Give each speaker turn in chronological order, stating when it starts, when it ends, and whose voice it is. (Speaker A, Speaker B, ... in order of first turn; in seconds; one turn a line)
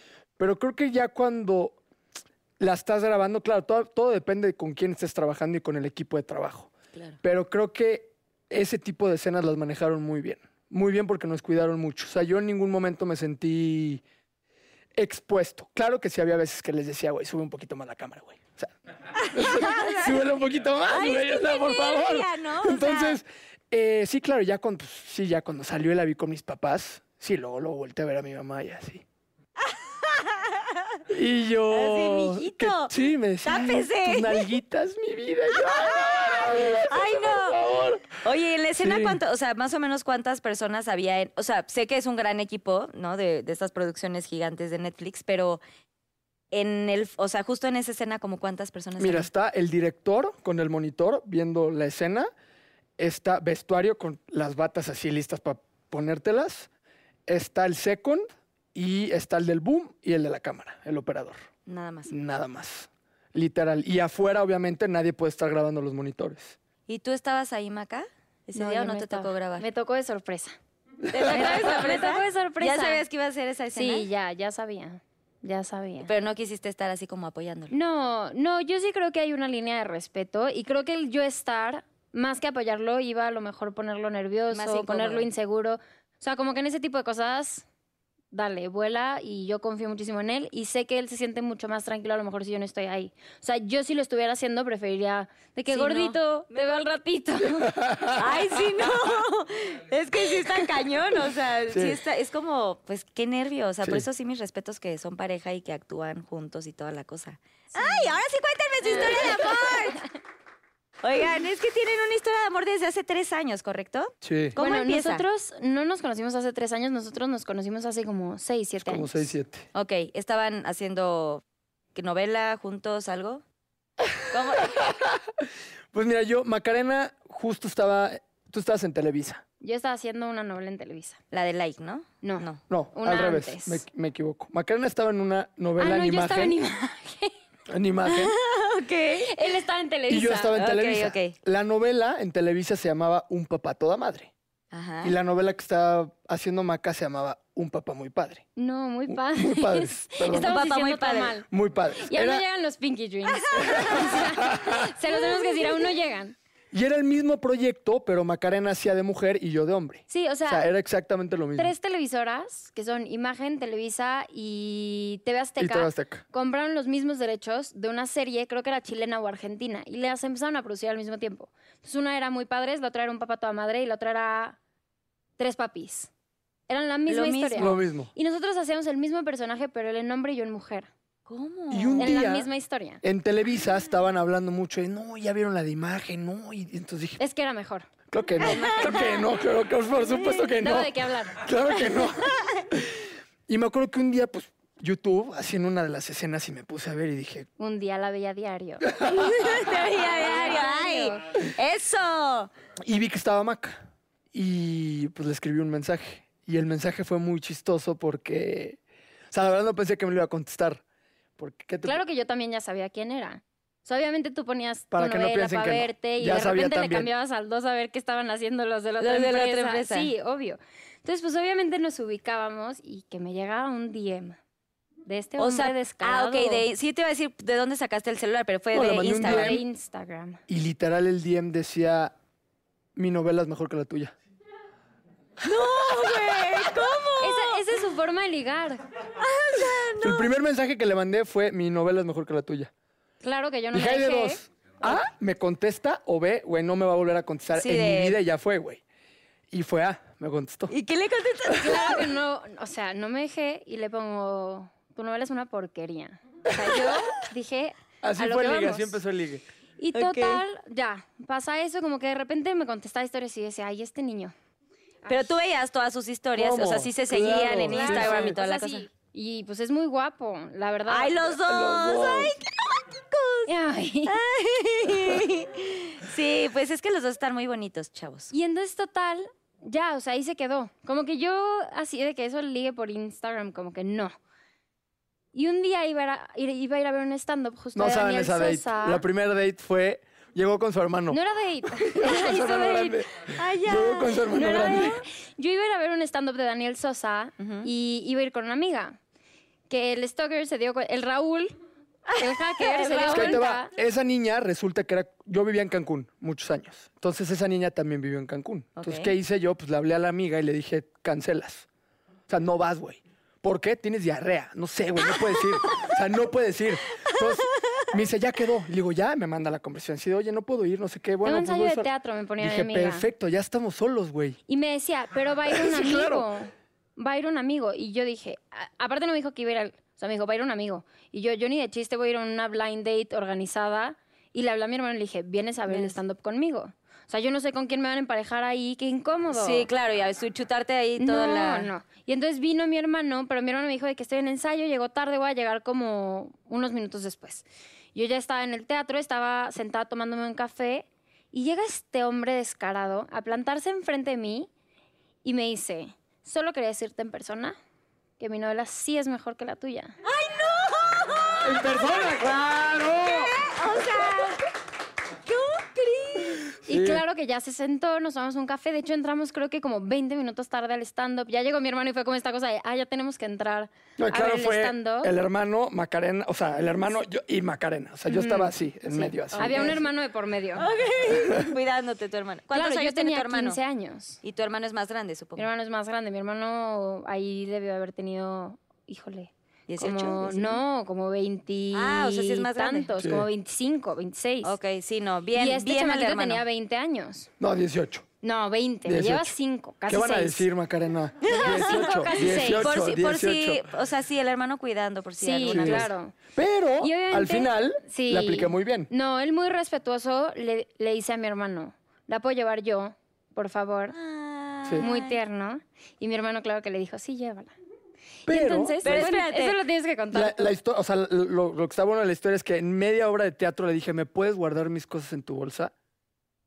Speaker A: 0.4-1.8
Speaker A: 2.6-14.0
Speaker A: 14.9-29.0
Speaker B: 19.1-20.2
Speaker B: 20.9-23.2
Speaker B: 29.6-30.7
Speaker A: 31.1-38.2
Speaker B: 31.7-34.5
Speaker B: 35.7-37.6
Speaker B: 38.1-45.6
Speaker A: 38.8-39.2
Speaker B: 46.5-49.3
Speaker A: 49.0-52.3
Speaker A: 53.0-56.7
Speaker A: 57.3-61.4
Speaker B: 61.7-62.1
Speaker A: 62.1-66.6
Speaker B: 66.9-69.6
Speaker C: 68.5-70.5
Speaker A: 71.0-71.5
Speaker B: 71.1-74.1
Speaker C: 71.2-73.0
Speaker C: 73.7-76.1
Speaker B: 76.0-77.7
Speaker C: 77.7-87.7
Speaker B: 84.5-85.3
Speaker C: 88.3-97.8
Speaker B: 95.7-96.8
Speaker A: 97.6-98.8
Speaker B: 98.1-110.0
Speaker A: 101.7-102.0
Speaker C: 107.7-108.1
Speaker C: 108.9-110.0
Speaker B: 111.0-115.2
Speaker A: 114.2-114.5
Speaker C: 114.6-119.3
Speaker A: 118.8-119.7
Speaker B: 119.7-121.4
Speaker B: 121.9-123.4
Speaker B: 124.2-124.8
Speaker A: 124.6-125.2
Speaker A: 125.9-129.4
Speaker C: 129.6-131.2
Speaker B: 131.3-132.6
Speaker C: 132.2-133.8
Speaker A: 132.7-136.6
Speaker C: 135.8-137.3
Speaker A: 137.7-138.3
Speaker B: 138.0-139.4
Speaker C: 139.2-140.6
Speaker A: 140.1-144.3
Speaker B: 140.6-141.3
Speaker B: 144.7-145.1
Speaker A: 145.0-148.4
Speaker C: 148.6-151.5
Speaker A: 149.1-150.6
Speaker B: 150.3-151.4
Speaker A: 151.5-152.4
Speaker C: 152.0-156.3
Speaker A: 153.5-154.9
Speaker B: 153.5-154.0
Speaker B: 155.1-155.8
Speaker A: 156.7-161.7
Speaker C: 160.1-160.7
Speaker C: 161.6-174.6
Speaker A: 165.6-166.2
Speaker C: 175.4-176.1
Speaker C: 176.7-180.9
Speaker B: 177.1-177.8
Speaker A: 177.6-178.1
Speaker B: 181.3-182.2
Speaker A: 181.7-182.5
Speaker C: 182.0-183.0
Speaker A: 183.0-187.2
Speaker C: 187.2-187.9
Speaker A: 188.1-197.5
Speaker B: 188.4-189.3
Speaker C: 188.4-188.7
Speaker B: 190.1-190.4
Speaker C: 190.6-191.4
Speaker B: 191.9-192.6
Speaker C: 197.6-201.3
Speaker A: 199.0-199.3
Speaker B: 199.0-202.5
Speaker A: 202.8-208.8
Speaker A: 209.3-210.8
Speaker A: 211.4-212.0
Speaker C: 211.8-224.4
Speaker A: 214.9-217.1
Speaker B: 219.0-220.1
Speaker C: 225.1-226.6
Speaker B: 225.4-229.6
Speaker A: 228.7-229.6
Speaker C: 229.2-230.4
Speaker A: 230.5-232.1
Speaker A: 232.9-234.1
Speaker B: 235.4-237.6
Speaker C: 237.2-238.8
Speaker B: 239.2-240.3
Speaker A: 240.0-242.7
Speaker C: 243.2-244.4
Speaker A: 243.7-248.8
Speaker B: 247.5-248.2
Speaker A: 249.5-250.7
Speaker B: 250.7-252.1
Speaker C: 251.6-259.0
Speaker A: 258.0-259.4
Speaker C: 259.8-264.3
Speaker B: 259.9-260.4
Speaker C: 265.0-265.3
Speaker B: 265.1-268.9
Speaker A: 266.4-268.4
Speaker C: 267.3-271.2
Speaker B: 270.9-273.5
Speaker A: 271.3-272.4
Speaker C: 273.4-274.2
Speaker B: 274.1-278.3
Speaker C: 278.3-284.1
Speaker C: 285.3-289.0
Speaker A: 287.7-295.0
Speaker C: 291.1-293.0
Speaker B: 293.3-294.9
Speaker C: 294.3-299.0
Speaker B: 297.4-297.7
Speaker C: 299.7-301.5
Speaker B: 302.1-303.4
Speaker C: 302.2-303.7
Speaker A: 303.1-311.7
Speaker B: 308.8-309.1
Speaker A: 312.3-324.4
Speaker B: 317.1-317.8
Speaker C: 321.2-323.1
Speaker C: 324.5-339.7
Speaker A: 325.5-326.3
Speaker B: 335.7-336.0
Speaker B: 339.3-341.7
Speaker C: 341.0-354.5
Speaker C: 355.2-357.6
Speaker C: 358.2-360.0
Speaker B: 360.0-361.6
Speaker A: 361.4-363.4
Speaker B: 363.0-364.4
Speaker B: 365.2-366.5
Speaker A: 366.6-367.0
Speaker C: 366.7-375.1
Speaker A: 374.0-379.8
Speaker C: 378.1-380.6
Speaker B: 379.3-379.8
Speaker B: 380.6-383.6
Speaker C: 382.5-384.2
Speaker B: 384.2-385.5
Speaker C: 385.4-394.6
Speaker B: 389.7-390.6
Speaker B: 391.7-392.9
Speaker A: 393.0-393.3
Speaker B: 394.4-396.4
Speaker C: 395.3-397.3
Speaker A: 397.4-398.1
Speaker C: 398.2-400.4
Speaker A: 398.8-399.3
Speaker A: 399.9-403.7
Speaker B: 401.2-405.9
Speaker C: 401.2-402.6
Speaker C: 405.2-406.1
Speaker A: 405.5-408.9
Speaker C: 406.8-413.9
Speaker B: 413.9-415.2
Speaker C: 414.8-417.5
Speaker A: 418.2-419.1
Speaker C: 418.3-420.5
Speaker B: 418.8-419.6
Speaker A: 420.1-425.7